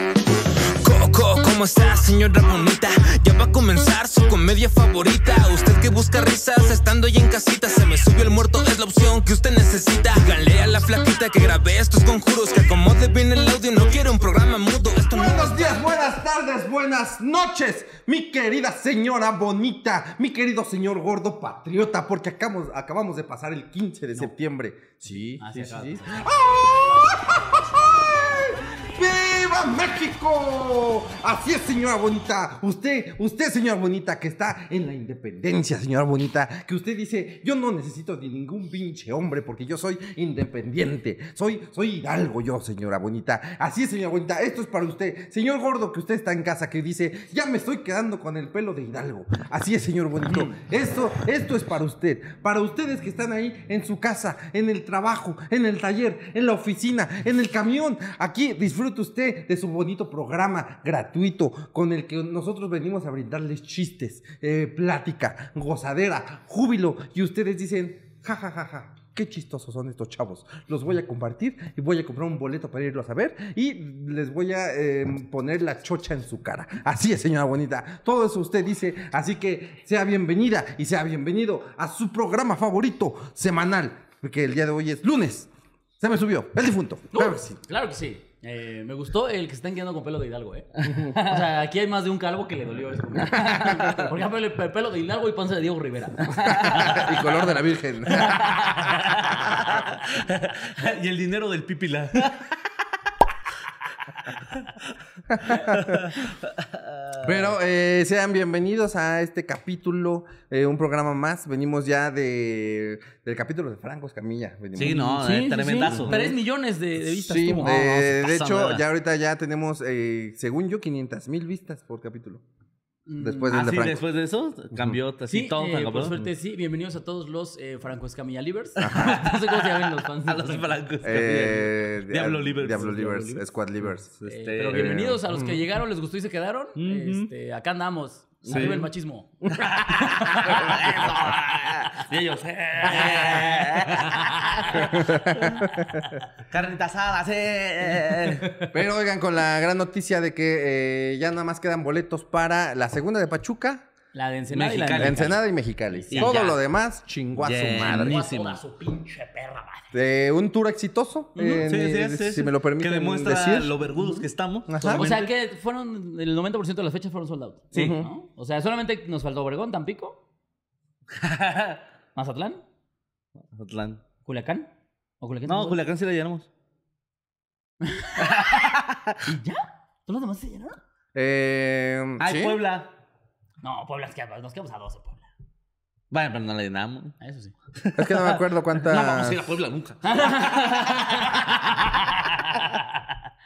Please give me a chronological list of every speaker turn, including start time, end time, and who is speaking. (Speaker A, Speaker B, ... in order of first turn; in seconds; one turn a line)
Speaker A: 0.8-15.8
Speaker B: 15.1-85.5
Speaker C: 25.4-26.2
Speaker B: 86.0-87.6
Speaker C: 87.1-97.2
Speaker B: 90.9-91.1
Speaker B: 93.2-94.1
Speaker B: 96.4-98.7
Speaker D: 96.5-97.0
Speaker C: 98.1-99.5
Speaker D: 98.8-102.6
Speaker D: 104.3-104.8
Speaker B: 105.3-106.1
Speaker D: 105.5-107.4
Speaker B: 107.2-115.1
Speaker D: 114.8-116.3
Speaker C: 114.8-118.3
Speaker B: 115.8-116.3
Speaker B: 117.1-122.4
Speaker D: 118.2-118.8
Speaker C: 123.1-123.6
Speaker B: 123.2-124.0
Speaker D: 123.5-126.2
Speaker C: 125.3-130.7
Speaker D: 128.8-133.4
Speaker B: 128.8-129.2
Speaker B: 131.0-135.6
Speaker C: 134.2-140.9
Speaker D: 134.3-135.0
Speaker D: 136.8-137.3
Speaker D: 138.4-138.9
Speaker B: 138.5-138.8
Speaker D: 139.6-145.6
Speaker B: 140.7-141.1
Speaker C: 142.8-145.2
Speaker B: 144.7-146.0
Speaker D: 146.4-148.5
Speaker C: 148.4-148.7
Speaker B: 148.7-153.8
Speaker C: 154.1-155.4
Speaker D: 154.5-155.4
Speaker B: 155.0-158.2
Speaker C: 155.9-156.3
Speaker D: 156.1-156.6
Speaker D: 157.4-158.6
Speaker C: 157.8-159.9
Speaker B: 159.9-163.8
Speaker C: 161.3-161.7
Speaker D: 161.6-165.3
Speaker B: 164.7-165.1
Speaker C: 164.8-170.2
Speaker D: 167.7-168.0
Speaker B: 167.7-168.1
Speaker D: 171.1-171.8
Speaker C: 172.2-172.6
Speaker D: 173.5-174.0
Speaker C: 174.2-175.8
Speaker D: 175.5-176.5
Speaker C: 177.8-178.6
Speaker D: 178.2-179.2
Speaker C: 179.2-180.8
Speaker B: 181.1-182.6
Speaker D: 182.2-182.9
Speaker C: 183.6-185.3
Speaker D: 186.1-187.2
Speaker C: 187.2-187.5
Speaker D: 187.8-191.5
Speaker B: 187.9-189.5
Speaker C: 190.0-193.0